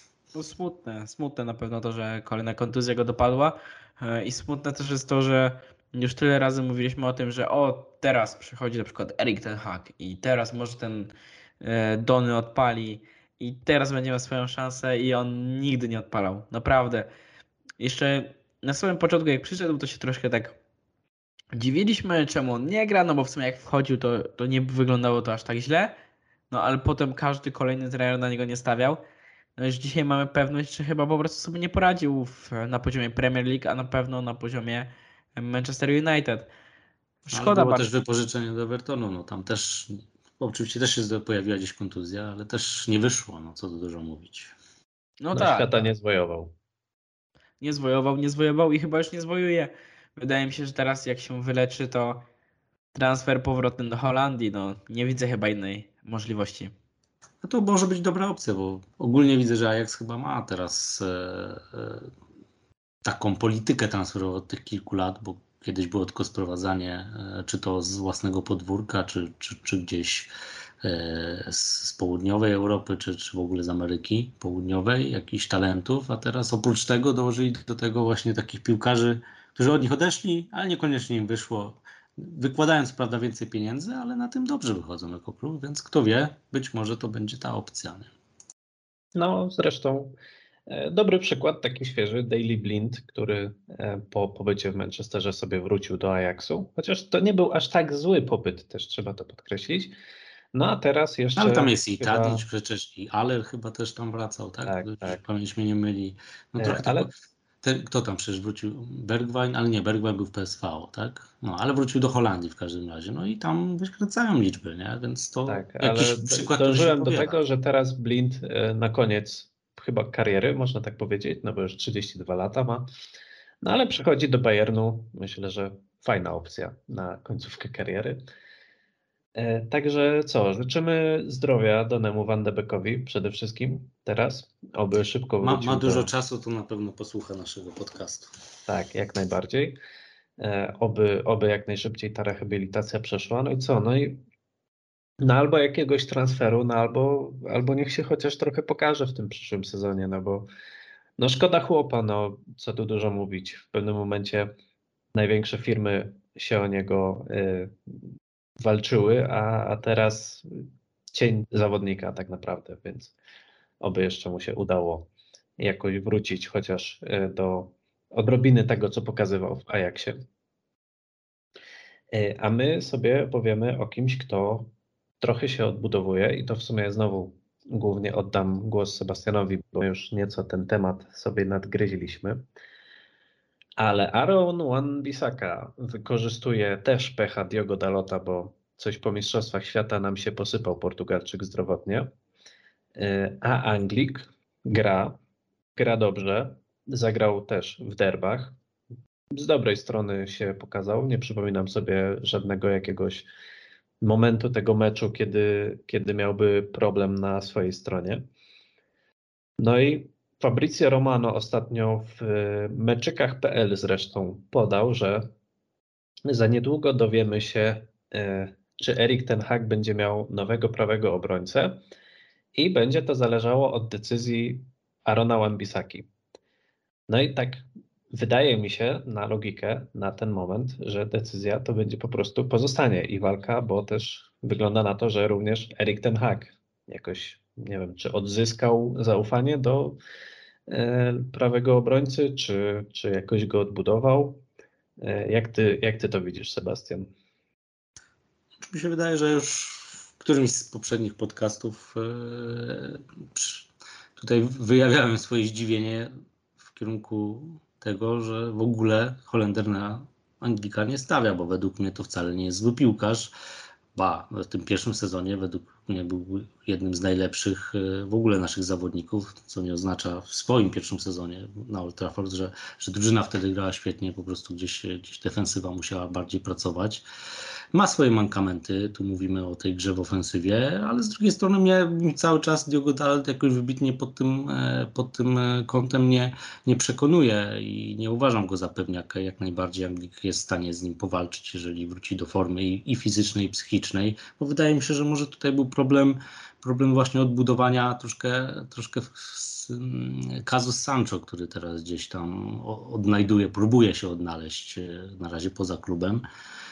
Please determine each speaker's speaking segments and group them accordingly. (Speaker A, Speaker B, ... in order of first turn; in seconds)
Speaker A: 0.3-17.1, 17.8-20.6, 21.5-25.9, 26.5-29.0, 29.6-36.5, 37.2-37.9, 45.2-45.6, 47.6-52.2, 52.9-56.7
Speaker B: 37.3-44.5, 57.4-62.1, 63.0-88.1, 101.3-117.4, 135.4-138.3, 248.6-256.1, 256.7-263.3, 263.9-277.0, 277.7-306.2
Speaker C: 45.3-46.5, 89.2-90.1, 90.7-99.9, 100.5-102.4, 104.6-105.2, 106.6-107.1, 115.5-122.9, 123.6-128.2, 129.3-136.1, 138.7-139.8, 140.4-144.2, 145.2-150.5, 151.2-154.5, 155.1-157.7, 158.6-160.5, 161.1-163.1, 163.8-170.2, 172.1-182.4, 183.8-192.1, 193.0-195.2, 195.8-198.5, 199.3-203.3, 204.0-208.2, 209.6-215.3, 216.3-221.8, 222.5-226.1, 227.1-240.0, 240.7-244.4, 245.0-247.1